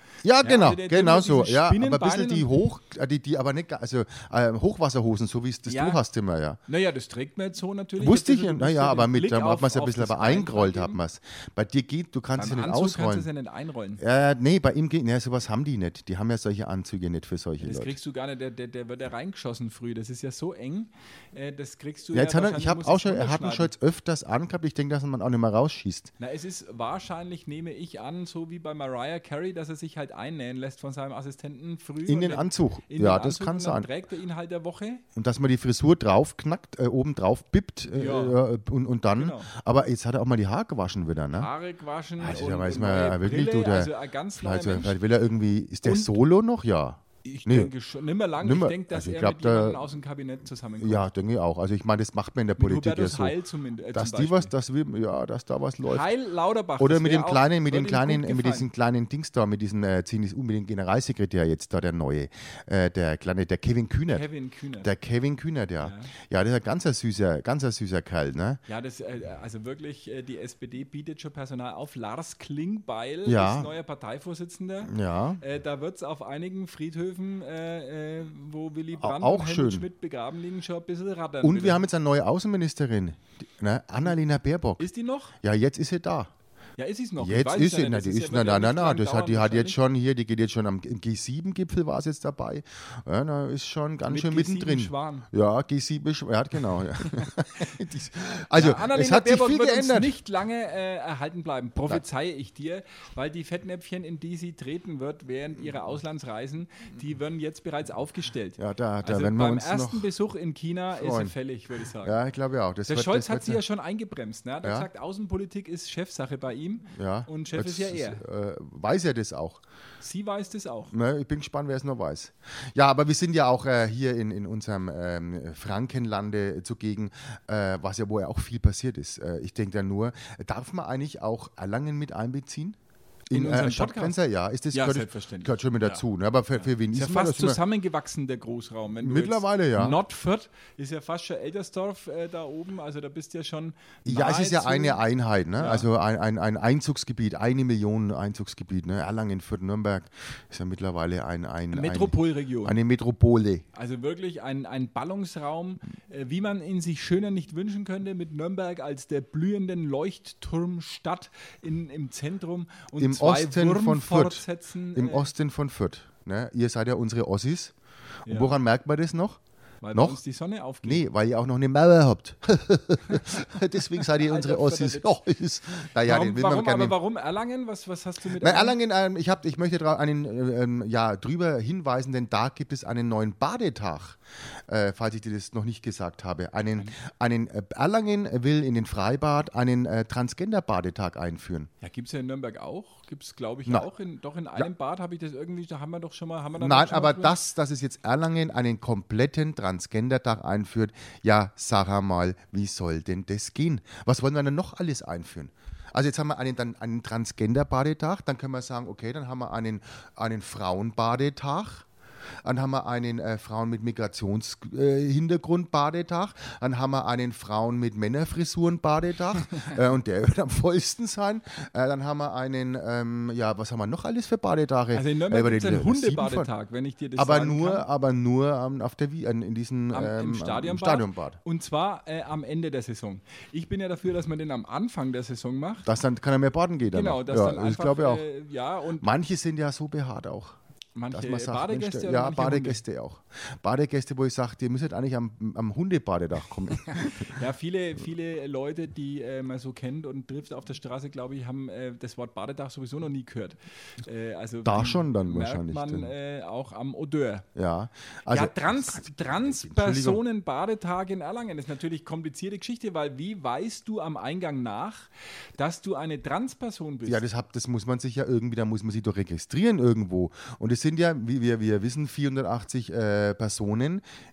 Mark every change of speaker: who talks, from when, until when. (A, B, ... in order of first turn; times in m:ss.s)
0:00.2-0:06.6 A
0:00.4-0:02.5 B
0:05.7-0:06.0 B
0:06.7-0:11.0 B
0:08.0-0:13.3 A
0:12.4-0:14.0 B
0:14.0-0:17.9 A
0:17.6-0:23.7 B
0:22.1-0:26.1 A
0:26.2-0:35.0 B
0:32.1-0:33.9 A
0:35.2-0:41.5 A
0:37.9-0:38.4 B
0:39.2-0:39.5 B
0:41.4-0:45.0 B
0:42.2-0:47.7 A
0:45.8-0:46.2 B
0:47.2-0:51.1 B
0:48.4-0:49.8 A
0:50.8-0:53.4 A
0:52.6-0:54.5 B
0:53.9-0:56.1 A
0:55.8-0:58.7 B
0:56.8-1:04.3 A
1:04.1-1:04.9 B
1:04.8-1:08.6 A
1:05.8-1:06.1 B
1:08.7-1:21.8 B
1:13.3-1:13.7 A
1:14.9-1:15.4 A
1:19.0-1:19.9 A
1:21.4-1:24.9 A
1:24.8-1:25.4 B
1:25.4-1:26.3 A
1:26.8-1:29.8 B
1:27.2-1:40.2 A
1:34.1-1:35.3 B
1:38.5-1:52.2 B
1:48.6-1:50.1 A
1:50.9-1:51.3 A
1:52.0-1:53.6 A
1:52.9-1:58.2 B
1:54.6-1:54.9 A
1:56.9-1:59.6 A
2:00.0-2:00.9 B
2:00.9-2:12.8 A
2:13.3-2:14.2 B
2:13.3-2:17.6 A
2:14.7-2:16.0 B
2:16.6-2:25.0 B
2:19.0-2:20.0 A
2:24.1-2:33.6 A
2:25.6-2:25.9 B
2:31.7-2:32.8 B
2:33.7-2:45.3 B
2:43.0-2:47.7 A
2:48.3-2:48.6 B
2:48.3-2:49.4 A
2:49.8-2:51.0 B
2:49.9-2:50.2 A
2:50.8-2:57.0 A
2:54.0-2:55.1 B
2:56.0-2:58.8 B
2:58.4-3:11.7 A
3:11.8-3:17.4 B
3:16.6-3:31.8 A
3:32.4-3:46.5 A
3:44.9-3:47.8 B
3:47.2-3:51.4 A
3:49.9-3:55.9 B
3:55.8-3:58.3 A
3:56.9-3:59.1 B
3:59.0-4:00.6 A
4:01.0-4:02.8 B
4:01.1-4:07.3 A
4:06.7-4:17.5 B
4:14.6-4:16.1 A
4:17.6-4:20.2 A
4:18.3-4:27.2 B
4:27.1-4:34.0 A